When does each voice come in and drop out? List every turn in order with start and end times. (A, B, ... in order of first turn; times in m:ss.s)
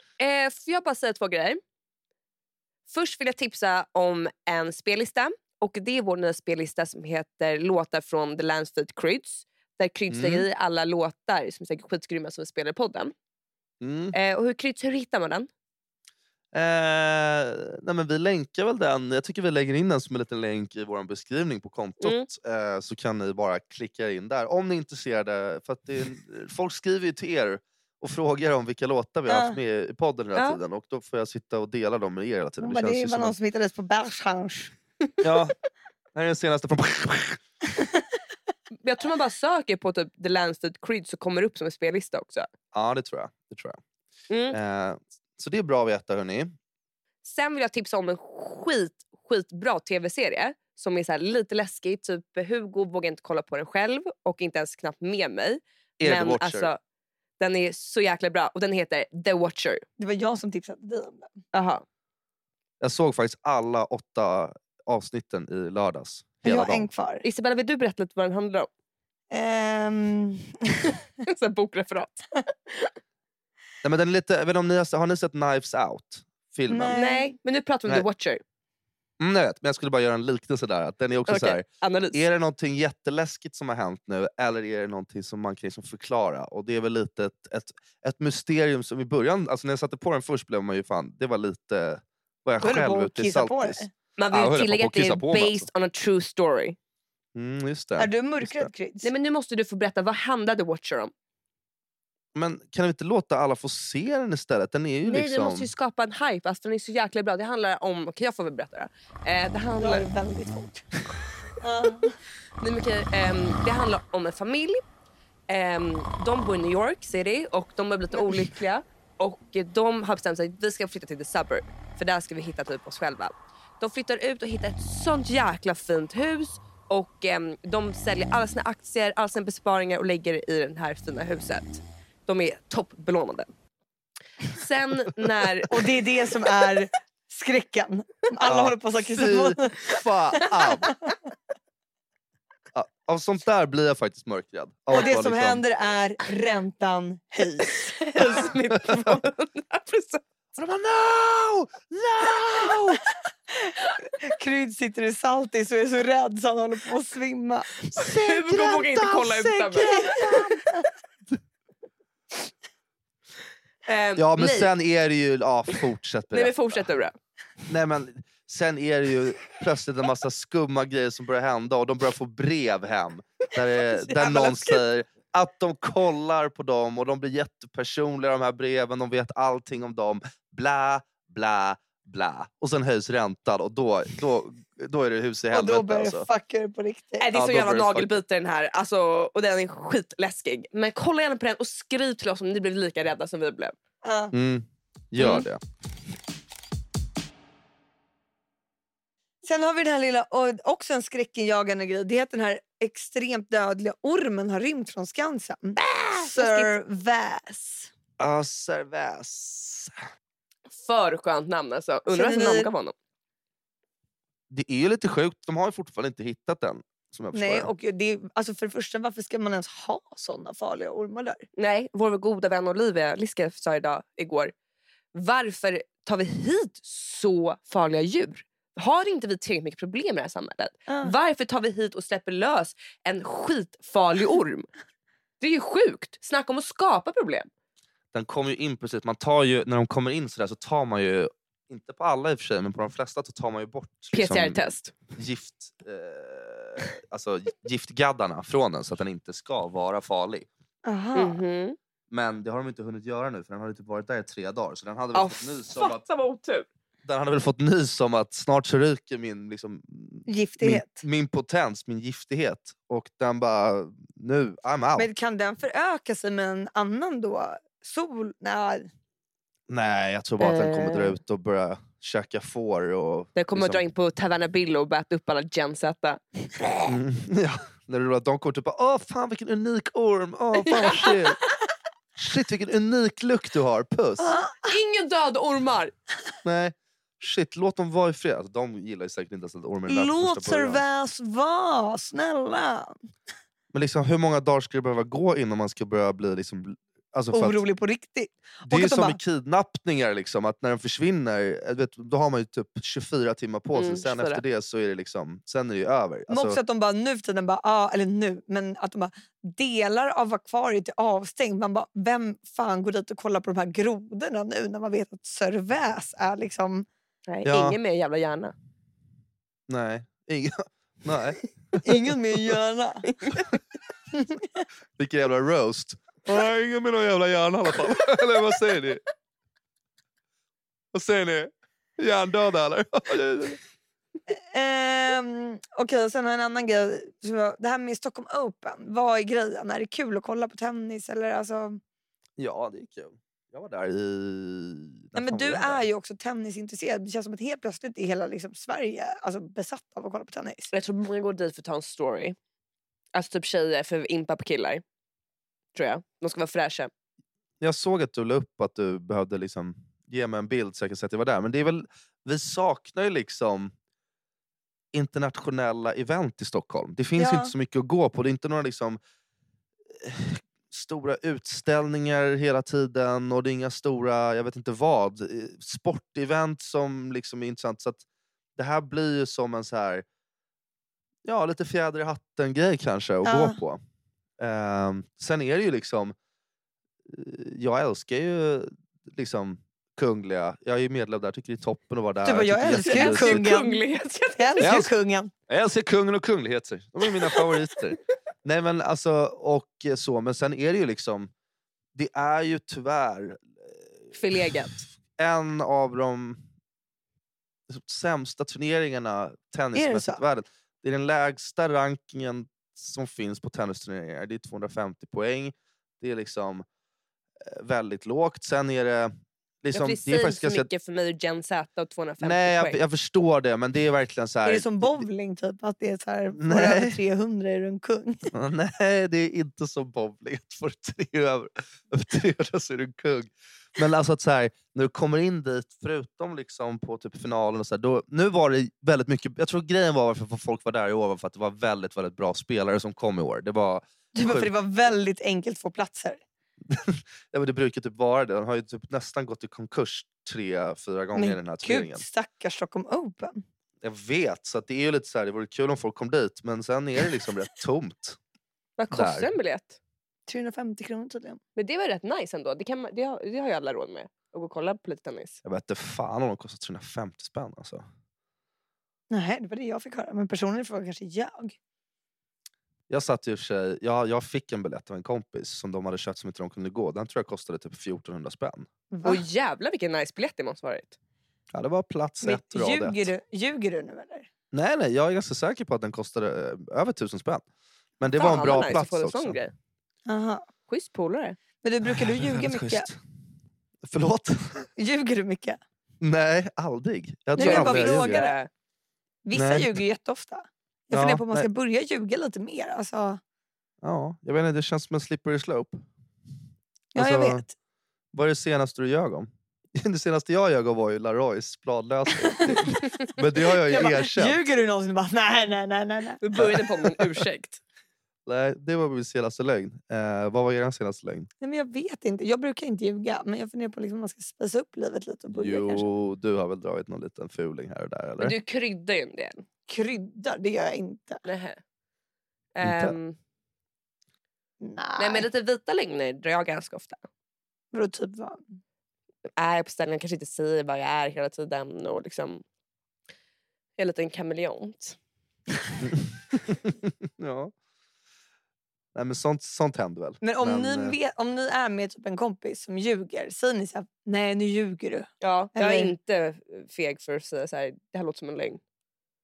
0:00.2-0:01.6 A
0:02.9-0:13.1 A
0:10.1-0:10.4 B
0:13.8-0:14.1 B
0:14.1-0:15.5 A
0:16.5-0:33.3 B
0:22.0-0:22.3 A
0:29.3-0:29.6 C
0:32.6-0:34.7 C
0:35.2-0:35.5 B
0:36.1-0:37.4 B
0:38.8-0:42.5 A
0:42.7-0:43.8 B
0:44.3-0:44.6 A
0:44.5-0:46.5 B
0:47.2-0:56.8 A
0:56.0-0:56.7 B
0:57.4-0:59.8 A
1:00.0-1:01.4 C
1:01.5-1:01.8 A
1:02.8-1:06.9 B
1:06.4-1:07.2 C
1:07.2-1:08.7 A
1:09.3-1:11.0 C
1:11.2-1:12.9 A
1:13.8-1:16.9 B
1:16.7-1:17.3 C
1:16.9-1:18.4 A
1:19.2-1:35.7 B
1:21.3-1:22.2 A
1:32.6-1:33.9 C
1:34.2-1:36.8 A
1:37.3-1:38.7 B
1:38.0-1:39.1 C
1:39.0-1:41.1 A
1:42.3-1:45.7 B
1:45.0-1:50.1 A
1:49.8-1:50.8 C
1:51.6-1:52.1 C
1:52.6-1:54.8 A
1:55.5-2:13.5 A
2:14.5-2:15.8 A
2:15.7-2:21.1 C
2:18.4-2:20.9 B
2:22.7-2:25.6 B
2:24.9-2:28.5 C
2:28.1-2:30.2 A
2:28.7-2:29.1 B
2:30.6-2:33.0 B
2:33.6-2:37.8 C
2:37.9-2:40.4 B
2:38.0-2:40.4 A
2:39.8-2:40.8 C
2:43.8-2:44.7 A
2:44.2-2:46.8 B
2:46.3-2:47.2 A
2:47.7-3:06.3 B
2:53.9-2:54.8 A
3:05.5-3:07.3 C
3:07.2-3:13.8 A
3:07.3-3:08.2 B
3:14.0-3:14.3 C
3:14.3-3:15.6 B
3:15.2-3:15.4 A
3:19.4-3:27.9 C
3:26.1-3:26.7 A
3:28.2-3:30.0 B
3:30.7-3:32.9 A
3:32.1-3:32.7 C
3:34.5-3:37.7 B
3:37.3-3:41.4 C
3:41.6-3:44.5 A
3:45.1-3:54.7 A
3:50.9-3:51.1 C
3:55.4-3:57.5 A
3:58.1-4:04.6 B
4:04.1-4:04.9 A
4:05.1-4:10.5 B
4:10.8-4:11.4 C
4:11.1-4:11.8 A
4:12.1-4:16.0 B
4:15.1-4:16.7 A
4:17.0-4:25.1 B
4:20.3-4:21.0 C
4:25.0-4:28.9 C
4:29.7-4:33.8 B
4:30.4-4:31.2 A
4:33.4-4:36.2 A
4:36.9-4:41.4 B
4:42.2-4:44.3 B
4:44.2-4:44.8 C
4:44.6-4:45.9 A
4:46.4-4:50.8 B
4:49.9-4:52.9 C
4:53.7-4:57.6 B
4:57.3-4:59.2 C
4:58.7-5:06.6 B
5:03.7-5:04.4 A
5:06.3-5:16.8 C
5:17.3-5:18.5 A
5:17.4-5:17.8 B
5:19.7-5:21.9 B
5:21.8-5:23.1 C
5:23.1-5:23.4 A
5:24.1-5:24.6 C
5:25.0-5:29.0 B
5:30.9-5:33.6 B
5:34.3-5:41.8 C
5:42.4-5:45.8 B
5:45.1-5:50.7 C
5:50.7-5:52.4 A
5:53.1-5:54.8 A
5:55.7-5:56.9 A
5:57.6-6:03.7 B
6:04.9-6:09.0 B
6:07.2-6:07.5 C
6:10.0-6:18.0 B
6:18.6-6:20.0 B
6:21.2-6:23.8 B
6:23.2-6:23.6 C
6:24.4-6:26.1 B
6:27.1-6:33.4 B
6:32.2-6:33.8 C
6:32.7-6:34.7 A
6:34.4-6:35.3 C
6:34.6-6:34.9 B
6:35.5-6:41.3 B
6:41.9-6:43.8 B
6:44.1-6:44.8 A
6:45.2-6:46.4 B
6:47.7-6:56.6 B
6:49.7-6:50.2 C
6:57.4-7:00.7 B
6:59.7-7:02.8 A
7:02.2-7:05.0 B
7:04.4-7:08.3 C
7:06.4-7:07.0 B
7:08.3-7:24.5 B
7:24.1-7:26.2 C
7:26.7-7:32.0 B
7:31.1-7:33.4 C
7:33.8-7:38.2 B
7:38.8-7:39.8 A
7:38.9-7:39.3 B
7:40.3-7:41.4 C
7:41.6-7:45.4 A
7:45.4-7:47.8 B
7:49.1-7:51.6 C
7:52.9-7:58.7 B
7:58.9-7:59.2 C
7:59.0-8:01.0 A
8:01.5-8:03.1 B
8:02.2-8:04.3 C
8:04.5-8:07.4 B
8:08.0-8:09.4 B
8:08.1-8:09.5 A
8:10.0-8:10.4 C
8:10.7-8:11.4 A
8:11.6-8:12.9 C
8:11.9-8:13.0 B
8:13.8-8:14.7 B
8:14.8-8:15.6 C
8:16.0-8:18.2 B
8:17.4-8:18.4 C
8:17.4-8:18.5 A
8:19.2-8:23.2 C
8:19.3-8:19.8 B
8:20.9-8:21.5 B
8:23.8-8:25.8 B
8:26.9-8:27.5 C
8:26.9-8:27.4 B
8:28.1-8:34.4 B
8:32.2-8:32.8 C
8:32.8-8:33.1 A
8:33.5-8:36.2 C
8:36.2-8:37.6 A
8:36.4-8:37.2 B
8:38.2-8:41.3 B
8:41.4-8:45.9 C
8:45.3-8:48.3 B
8:48.2-8:49.4 A
8:49.7-8:51.2 C
8:51.2-8:51.6 A
8:52.6-8:53.2 A
8:52.6-8:53.0 B
8:54.6-8:55.3 C
8:55.0-8:57.0 A
8:57.7-8:58.4 C
8:59.4-9:02.4 A
9:03.8-9:05.0 A
9:05.8-9:07.5 B
9:08.9-9:11.0 B
9:10.2-9:15.9 C
9:15.2-9:18.6 A